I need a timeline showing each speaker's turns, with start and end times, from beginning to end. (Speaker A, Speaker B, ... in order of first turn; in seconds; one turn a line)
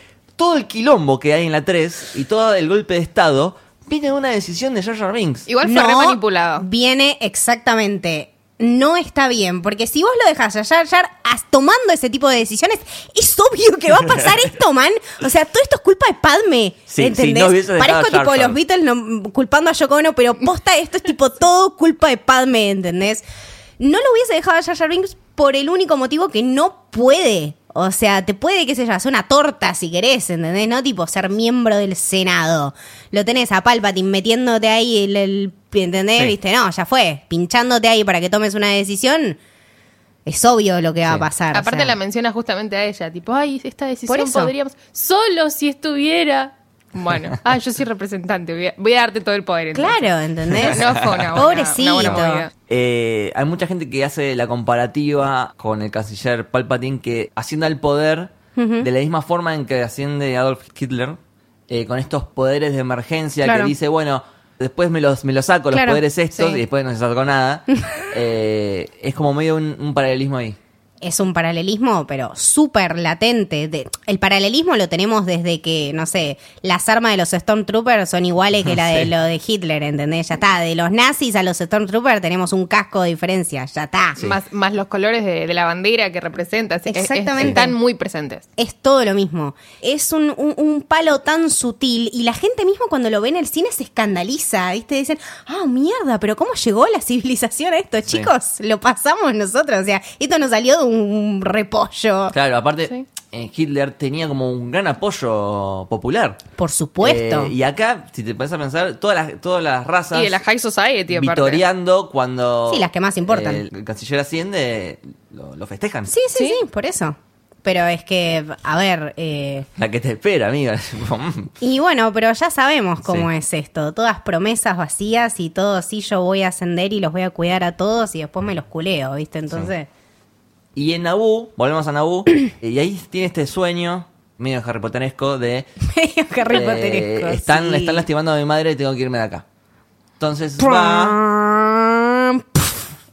Speaker A: 0.3-5.5
Speaker B: 5.5-6.6
Speaker C: 5.6-23.2
Speaker A: 16.9-18.6
Speaker C: 23.8-39.4
Speaker C: 40.2-42.0
Speaker B: 41.5-52.5
Speaker C: 44.1-44.5
Speaker C: 49.7-52.5
Speaker A: 50.5-51.5
Speaker A: 52.7-61.2
Speaker C: 58.5-58.9
Speaker A: 61.7-70.6
Speaker C: 63.4-63.7
Speaker C: 65.7-66.0
Speaker B: 66.3-66.6
Speaker C: 71.0-84.2
Speaker A: 78.6-79.1
Speaker B: 84.2-88.5
Speaker C: 86.9-87.7
Speaker C: 88.6-102.3
Speaker A: 102.3-106.4
Speaker C: 106.6-107.5
Speaker A: 107.0-110.4
Speaker B: 110.1-111.6
Speaker A: 111.1-116.1
Speaker C: 112.7-113.6
Speaker C: 116.1-119.7
Speaker B: 116.3-116.6
Speaker A: 119.8-121.5
Speaker C: 121.6-129.9
Speaker A: 130.7-135.7
Speaker C: 135.8-138.0
Speaker A: 136.5-139.4
Speaker A: 140.2-141.2
Speaker C: 140.6-142.8